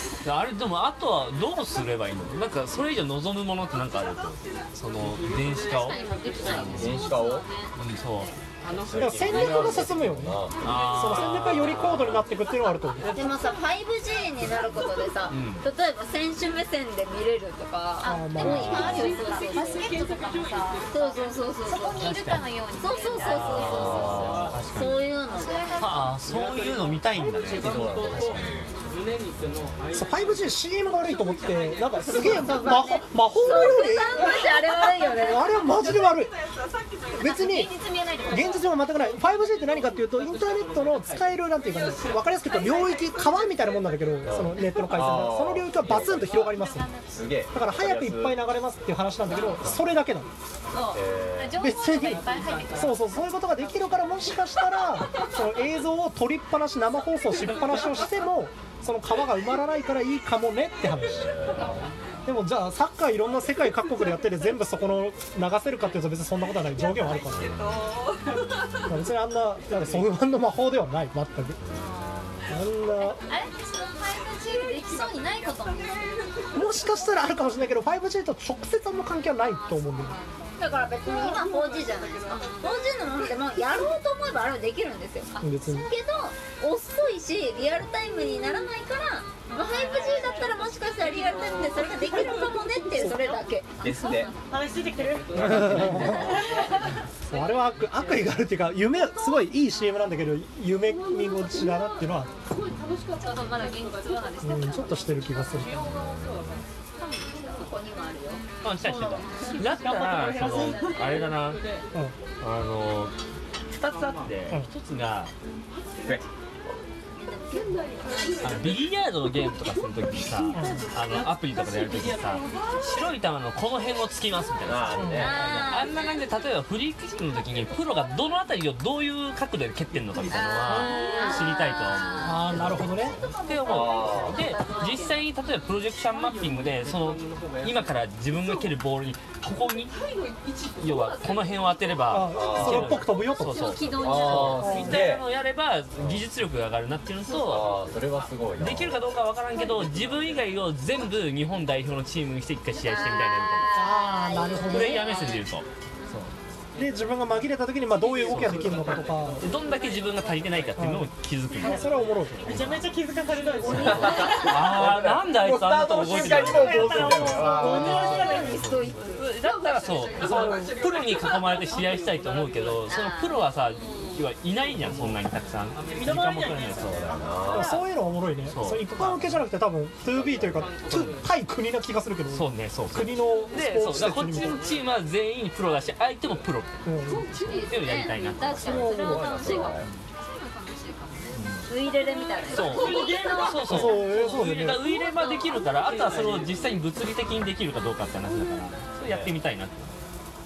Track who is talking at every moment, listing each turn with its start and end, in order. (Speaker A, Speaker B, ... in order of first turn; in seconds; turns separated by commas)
Speaker A: 0.2-7.0, Speaker B: 5.0-7.0, Speaker C: 5.5-8.3, Speaker D: 6.4-7.5, Speaker A: 7.8-8.3, Speaker B: 8.6-9.9, Speaker D: 8.7-10.6, Speaker E: 8.9-10.4, Speaker A: 10.6-12.3, Speaker B: 10.6-11.7, Speaker E: 10.9-13.4, Speaker F: 13.1-20.0, Speaker A: 15.3-15.6, Speaker C: 18.0-24.5, Speaker E: 18.0-19.2, Speaker F: 20.9-22.1, Speaker A: 21.9-22.5, Speaker F: 22.8-25.8, Speaker A: 23.1-25.1, Speaker B: 24.2-24.6, Speaker C: 25.3-26.1, Speaker A: 25.8-27.8, Speaker B: 25.9-32.6, Speaker D: 27.6-28.8, Speaker E: 29.9-34.4, Speaker F: 32.1-35.6, Speaker E: 35.0-36.4, Speaker C: 35.7-35.9, Speaker C: 37.1-38.7, Speaker E: 37.2-46.9, Speaker B: 38.9-41.4, Speaker C: 42.5-43.5, Speaker D: 44.2-46.5, Speaker C: 46.2-47.3, Speaker D: 47.1-48.5, Speaker E: 47.5-50.3, Speaker D: 49.4-49.8, Speaker C: 50.7-53.3, Speaker D: 50.9-51.6, Speaker E: 51.6-61.7, Speaker B: 52.3-52.9, Speaker D: 60.9-61.9, Speaker E: 62.2-67.5, Speaker D: 67.3-68.0, Speaker E: 68.9-71.6, Speaker C: 71.8-72.4, Speaker E: 72.5-73.2, Speaker C: 73.0-76.9, Speaker E: 76.5-80.2, Speaker C: 79.5-80.7, Speaker F: 80.6-93.7, Speaker C: 82.4-82.7, Speaker E: 85.4-85.9, Speaker C: 89.6-90.5, Speaker G: 89.6-91.4, Speaker D: 93.8-94.3, Speaker C: 93.8-94.4, Speaker G: 94.5-96.5, Speaker B: 94.8-96.7, Speaker D: 95.3-96.4, Speaker E: 95.3-96.3, Speaker C: 95.8-96.9, Speaker E: 97.3-102.4, Speaker C: 103.1-105.5, Speaker E: 104.4-105.8, Speaker D: 105.7-106.7, Speaker C: 107.0-107.8, Speaker F: 107.4-108.4, Speaker A: 108.6-111.6, Speaker C: 108.9-111.4, Speaker B: 110.6-111.8, Speaker A: 112.4-113.1, Speaker A: 113.7-115.3, Speaker B: 113.9-114.4, Speaker D: 116.0-116.2, Speaker F: 117.2-118.8, Speaker A: 118.4-140.0, Speaker E: 120.5-120.9, Speaker B: 121.1-122.6, Speaker D: 124.7-125.4, Speaker E: 125.0-125.3, Speaker F: 125.1-126.0, Speaker C: 125.4-125.9, Speaker F: 130.3-132.5, Speaker C: 130.6-135.1, Speaker E: 130.7-131.1, Speaker E: 132.2-133.2, Speaker D: 133.6-134.5, Speaker F: 133.9-135.2, Speaker B: 136.1-138.0, Speaker A: 140.8-147.8, Speaker E: 142.1-143.8, Speaker D: 142.2-143.2, Speaker C: 142.3-145.0, Speaker D: 143.8-145.3, Speaker E: 144.6-145.0, Speaker D: 146.0-146.3, Speaker D: 147.3-149.0, Speaker A: 148.6-153.8, Speaker C: 152.8-154.4, Speaker F: 152.9-155.3, Speaker E: 153.8-155.1, Speaker A: 154.7-156.3, Speaker B: 156.8-157.4, Speaker E: 156.8-159.5, Speaker B: 158.0-160.7, Speaker A: 158.2-158.7, Speaker A: 159.4-163.0, Speaker E: 160.8-162.5, Speaker G: 162.4-164.2, Speaker F: 163.5-164.6, Speaker B: 163.6-164.0, Speaker D: 163.7-168.4, Speaker C: 163.8-164.6, Speaker A: 164.3-167.6, Speaker G: 166.1-168.7, Speaker F: 167.3-169.3, Speaker A: 168.6-177.1, Speaker B: 170.2-172.9, Speaker C: 172.9-174.0, Speaker F: 172.9-173.4, Speaker B: 174.8-175.2, Speaker B: 175.7-176.2, Speaker G: 175.9-177.8, Speaker D: 176.8-177.8, Speaker E: 177.5-184.7, Speaker A: 178.5-179.4, Speaker B: 180.1-181.3, Speaker A: 182.3-186.8, Speaker B: 184.3-184.9, Speaker E: 186.8-187.5, Speaker C: 187.3-196.4, Speaker A: 187.5-188.9, Speaker F: 187.9-189.8, Speaker E: 188.6-189.4, Speaker D: 188.7-189.9, Speaker A: 191.3-191.7, Speaker F: 191.7-193.3, Speaker A: 192.5-200.0, Speaker G: 192.6-193.8, Speaker E: 193.7-194.9, Speaker B: 195.8-196.6, Speaker D: 199.1-199.3